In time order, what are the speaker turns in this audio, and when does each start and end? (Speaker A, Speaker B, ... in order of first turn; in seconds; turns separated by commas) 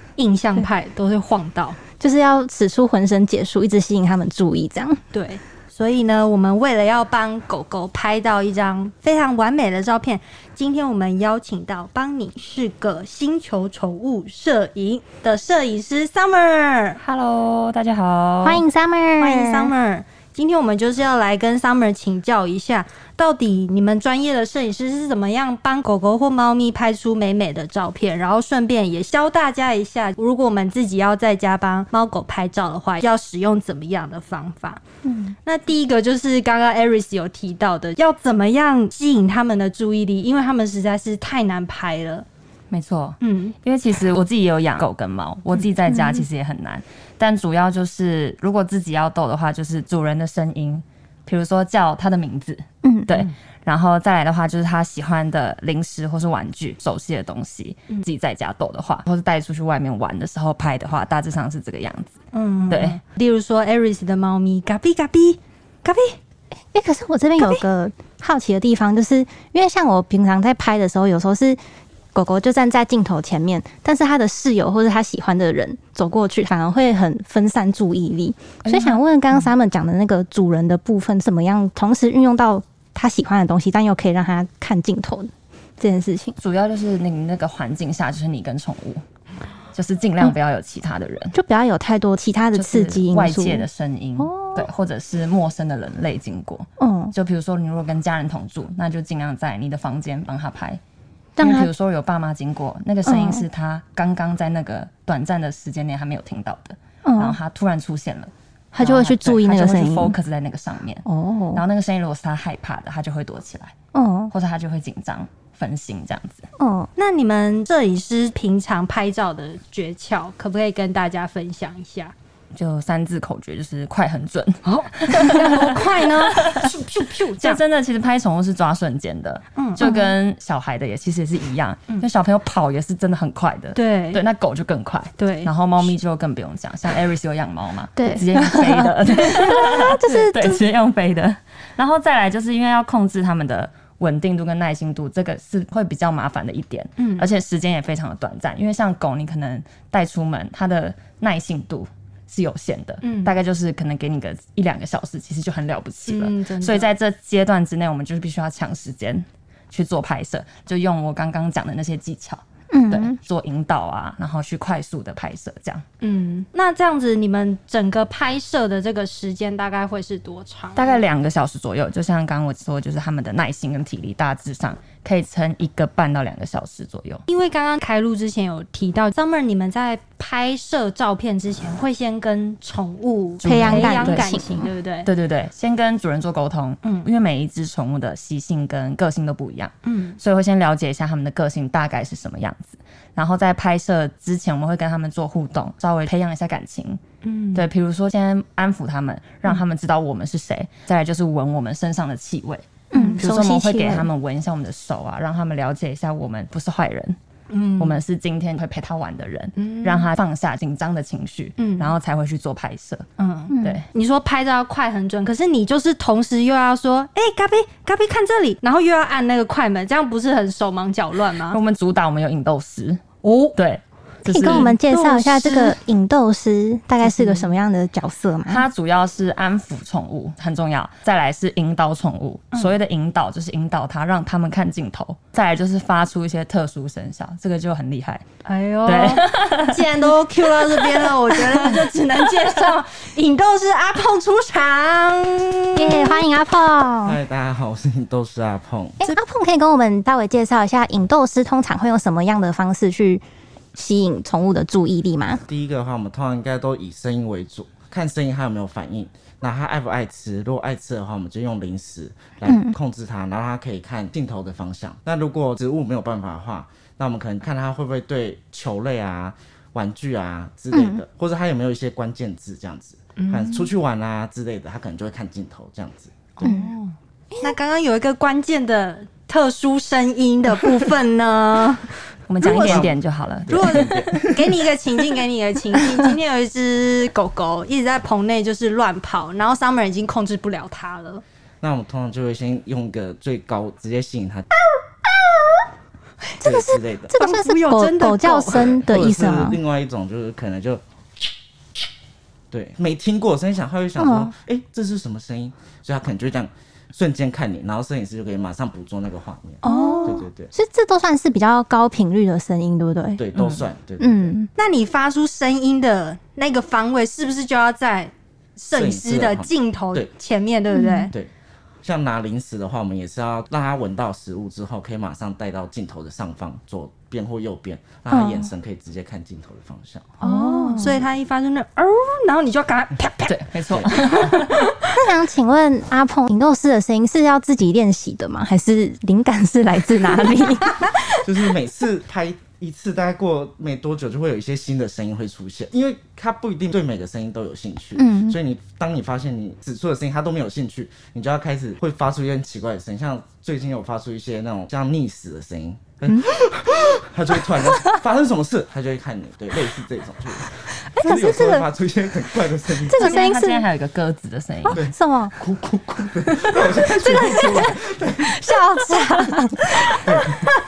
Speaker A: 0.2-1.8, Speaker B: 2.0-5.0, Speaker A: 5.1-17.0, Speaker C: 17.0-18.6, Speaker B: 18.4-19.7, Speaker A: 19.2-34.8, Speaker B: 35.0-35.4, Speaker A: 35.4-42.2, Speaker C: 42.7-62.1, Speaker A: 43.2-43.5, Speaker B: 45.9-46.3, Speaker B: 52.8-53.1, Speaker A: 62.3-66.2, Speaker C: 62.7-63.0, Speaker B: 66.7-71.6, Speaker B: 72.1-86.3, Speaker C: 78.7-79.5, Speaker C: 86.4-89.0, Speaker C: 89.7-91.3, Speaker B: 91.3-93.7, Speaker C: 92.5-100.8, Speaker B: 94.2-94.7, Speaker B: 96.8-97.2, Speaker B: 101.4-101.7, Speaker C: 101.4-113.7, Speaker B: 103.0-103.4, Speaker B: 107.0-107.4, Speaker B: 108.7-110.2, Speaker B: 111.1-111.6, Speaker B: 113.9-114.3, Speaker C: 114.3-116.5, Speaker B: 116.6-116.9, Speaker A: 117.0-122.1, Speaker C: 122.5-126.7, Speaker A: 124.7-127.6, Speaker C: 127.3-165.8, Speaker B: 129.8-130.1, Speaker A: 133.8-134.2, Speaker A: 135.2-135.9, Speaker B: 138.0-140.6, Speaker A: 140.1-140.3, Speaker A: 147.0-147.3, Speaker A: 153.0-153.4, Speaker A: 156.1-156.9, Speaker B: 162.7-163.2, Speaker A: 166.0-171.0, Speaker C: 170.8-177.2, Speaker A: 177.3-185.1, Speaker C: 183.4-184.3, Speaker B: 183.4-184.7, Speaker C: 185.0-197.0, Speaker A: 189.9-190.2, Speaker A: 197.2-197.7, Speaker C: 197.6-207.2, Speaker B: 202.9-204.1, Speaker A: 202.9-203.3, Speaker A: 207.5-208.0, Speaker C: 207.8-213.1, Speaker A: 209.6-210.1, Speaker A: 211.6-211.9, Speaker A: 213.2-221.6, Speaker B: 213.5-213.8, Speaker C: 213.6-213.9, Speaker C: 221.5-223.1, Speaker A: 223.2-223.6, Speaker C: 223.6-224.8, Speaker B: 224.2-228.6, Speaker A: 224.3-225.8, Speaker A: 227.0-227.5, Speaker C: 228.5-238.2, Speaker A: 238.4-246.2, Speaker C: 238.9-239.8, Speaker C: 240.8-241.2, Speaker B: 245.8-247.2, Speaker D: 247.0-249.0, Speaker B: 249.0-253.2, Speaker B: 253.8-255.4, Speaker D: 255.5-276.6, Speaker B: 262.5-262.8, Speaker B: 270.7-271.0, Speaker A: 273.2-273.7, Speaker A: 276.4-281.9, Speaker B: 276.4-276.8, Speaker C: 282.3-284.1, Speaker A: 282.4-282.9, Speaker D: 282.4-283.0, Speaker D: 283.5-284.4, Speaker A: 283.5-291.2, Speaker D: 291.6-294.5, Speaker A: 295.1-295.6, Speaker B: 296.4-299.6, Speaker D: 296.4-297.1, Speaker A: 297.2-298.8, Speaker D: 298.6-300.8, Speaker D: 302.5-310.5, Speaker B: 304.0-304.3, Speaker B: 309.6-313.2, Speaker A: 309.6-310.2, Speaker D: 313.2-314.4, Speaker C: 313.4-313.7, Speaker B: 314.0-314.5, Speaker A: 314.6-321.1, Speaker D: 318.7-320.1, Speaker B: 320.7-321.1, Speaker D: 321.8-330.2, Speaker B: 328.1-328.5, Speaker A: 330.2-333.4, Speaker B: 330.2-331.0, Speaker C: 333.3-334.8, Speaker D: 333.7-334.0, Speaker A: 333.9-335.0, Speaker B: 334.9-341.2, Speaker D: 341.2-363.2, Speaker B: 348.0-348.4, Speaker B: 356.1-357.0, Speaker B: 357.6-358.0, Speaker B: 360.9-361.7, Speaker B: 362.9-363.7, Speaker C: 363.0-364.9, Speaker D: 364.7-368.6, Speaker B: 364.8-365.3, Speaker B: 366.8-370.2, Speaker D: 369.9-370.6